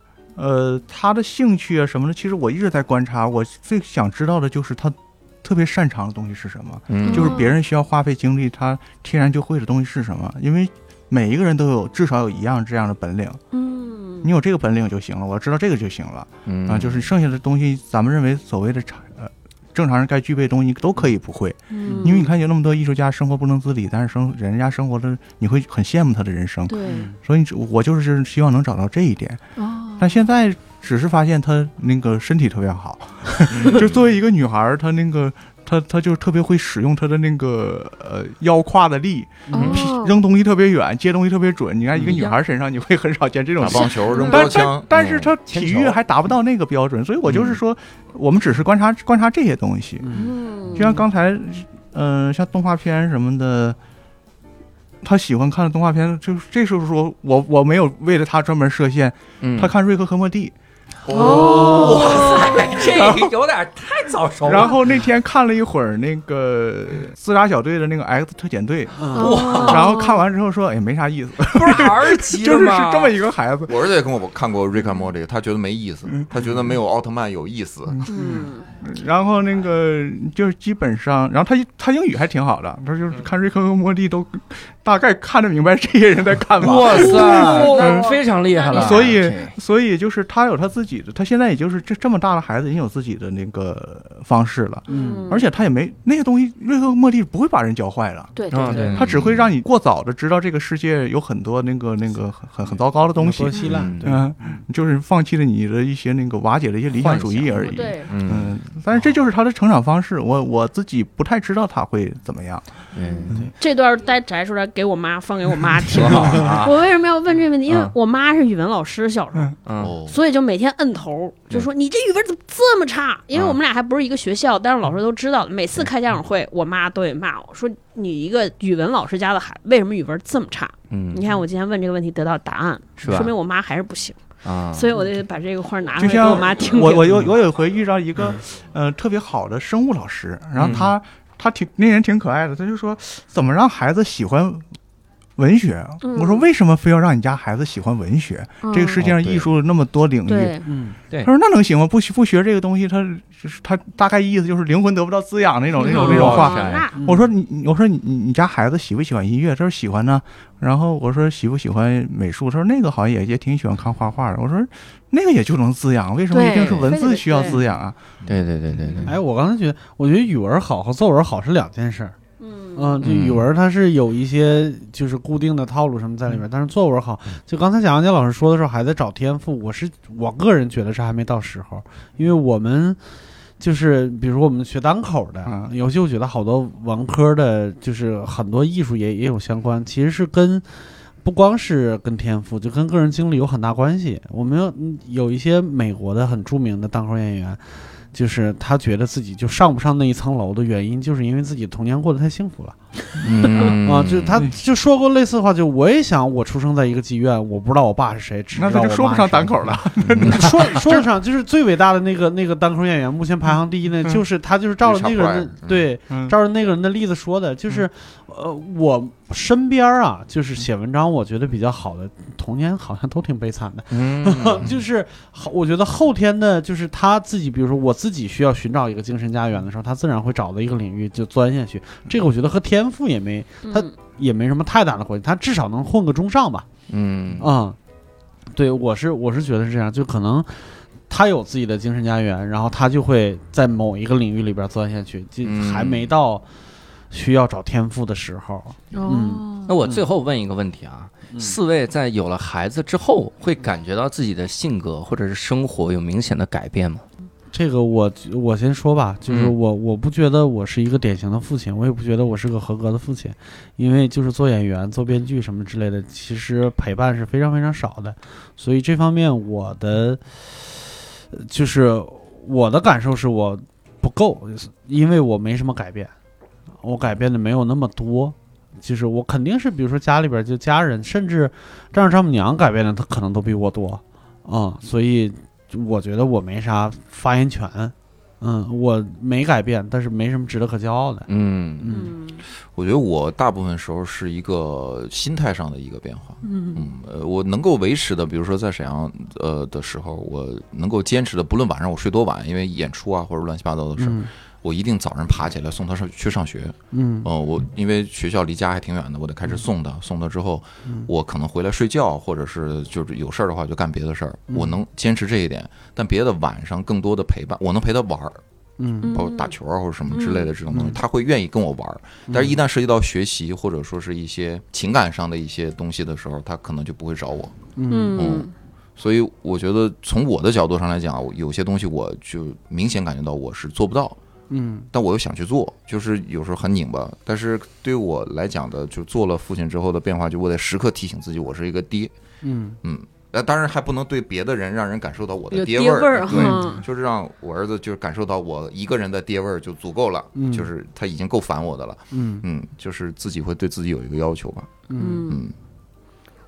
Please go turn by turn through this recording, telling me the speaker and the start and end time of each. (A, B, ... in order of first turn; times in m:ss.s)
0:00.4-0:13.4 A
0:06.9-0:07.4 B
0:07.0-0:07.6 C
0:13.5-0:14.3 C
0:14.2-0:29.4 A
0:16.5-0:17.0 B
0:21.7-0:22.3 C
0:21.8-0:22.3 D
0:26.7-0:27.1 C
0:26.9-0:27.2 D
0:29.6-0:30.2 C
0:30.0-0:50.1 A
0:33.7-0:34.0 B
0:39.5-0:40.2 C
0:39.5-0:39.9 E
0:41.9-0:42.3 E
0:42.1-0:42.4 C
0:43.6-0:45.3 B
0:43.7-0:44.5 C
0:44.9-0:46.0 E
0:50.0-0:50.9 D
0:50.1-0:51.0 C
0:50.7-0:53.8 A
0:55.0-1:00.5 A
0:59.4-0:59.7 B
1:01.0-1:02.4 B
1:01.1-1:02.7 C
1:01.1-1:04.8 E
1:02.9-1:03.3 A
1:04.4-1:13.9 A
1:09.0-1:09.4 D
1:09.1-1:10.2 C
1:09.2-1:09.9 E
1:11.5-1:13.2 E
1:13.7-1:18.1 B
1:17.9-1:28.1 A
1:18.1-1:18.7 C
1:26.6-1:29.6 E
1:26.9-1:29.2 C
1:28.7-1:38.3 A
1:34.9-1:35.5 C
1:34.9-1:35.4 D
1:38.3-1:39.0 C
1:38.5-1:39.2 E
1:38.7-1:39.0 D
1:39.0-1:52.7 A
1:39.0-1:39.5 B
1:43.1-1:44.6 D
1:43.6-1:44.1 E
1:47.0-1:48.5 E
1:47.6-1:48.1 C
1:52.9-1:53.4 E
1:53.2-2:14.2 C
1:55.8-1:56.8 E
1:57.7-1:57.9 E
1:59.6-1:59.9 E
1:59.8-2:00.2 B
2:03.3-2:03.6 E
2:10.9-2:11.2 E
2:13.0-2:13.3 E
2:14.4-2:14.9 E
2:14.7-2:17.2 C
2:16.0-2:24.7 A
2:20.6-2:20.9 E
2:25.4-2:30.6 A
2:26.0-2:26.4 C
2:28.6-2:29.0 C
2:29.0-2:29.5 E
2:30.2-2:30.6 C
2:30.6-2:31.0 D
2:31.2-2:48.0 A
2:35.8-2:37.0 C
2:35.8-2:36.9 E
2:36.9-2:37.3 D
2:46.3-2:47.6 C
2:48.3-2:49.2 E
2:49.0-2:52.2 D
2:52.4-2:53.0 C
2:52.7-3:03.0 D
2:53.0-2:53.4 E
3:03.6-3:22.8 D
3:05.4-3:05.7 A
3:23.2-3:24.4 E
3:23.6-3:56.6 D
3:28.5-3:31.0 A
3:30.0-3:30.4 E
3:34.8-3:35.8 B
3:36.1-3:36.4 A
3:43.9-3:44.8 B
3:53.6-3:53.9 C
3:56.9-3:57.4 E
3:57.4-3:57.8 D
3:58.5-4:06.4 D
4:05.4-4:06.0 B
4:07.1-4:10.0 D
4:08.9-4:09.7 C
4:09.7-4:17.0 E
4:11.3-4:11.6 D
4:17.5-4:36.1 D
4:19.3-4:19.5 E
4:36.8-4:51.3 D
4:51.3-4:51.8 B
4:51.8-4:52.2 D
4:51.9-4:52.4 C
4:52.7-5:18.4 B
4:56.4-4:56.8 C
5:04.0-5:04.3 D
5:06.9-5:07.3 D
5:14.5-5:14.8 D
5:18.8-5:19.2 D
5:19.0-5:19.5 C
5:19.1-5:27.6 B
5:20.1-5:20.5 C
5:20.7-5:21.0 D
5:22.3-5:22.6 D
5:27.8-5:28.3 D
5:27.9-5:28.5 C
5:28.1-5:34.2 B
5:34.5-5:34.9 D
5:34.9-5:42.1 B
5:42.4-5:42.8 D
5:42.8-5:55.5 B
5:45.5-5:46.8 C
5:46.3-5:46.8 D
5:50.3-5:50.7 D
5:52.1-5:52.4 D
5:54.9-5:55.3 D
5:55.0-5:55.4 C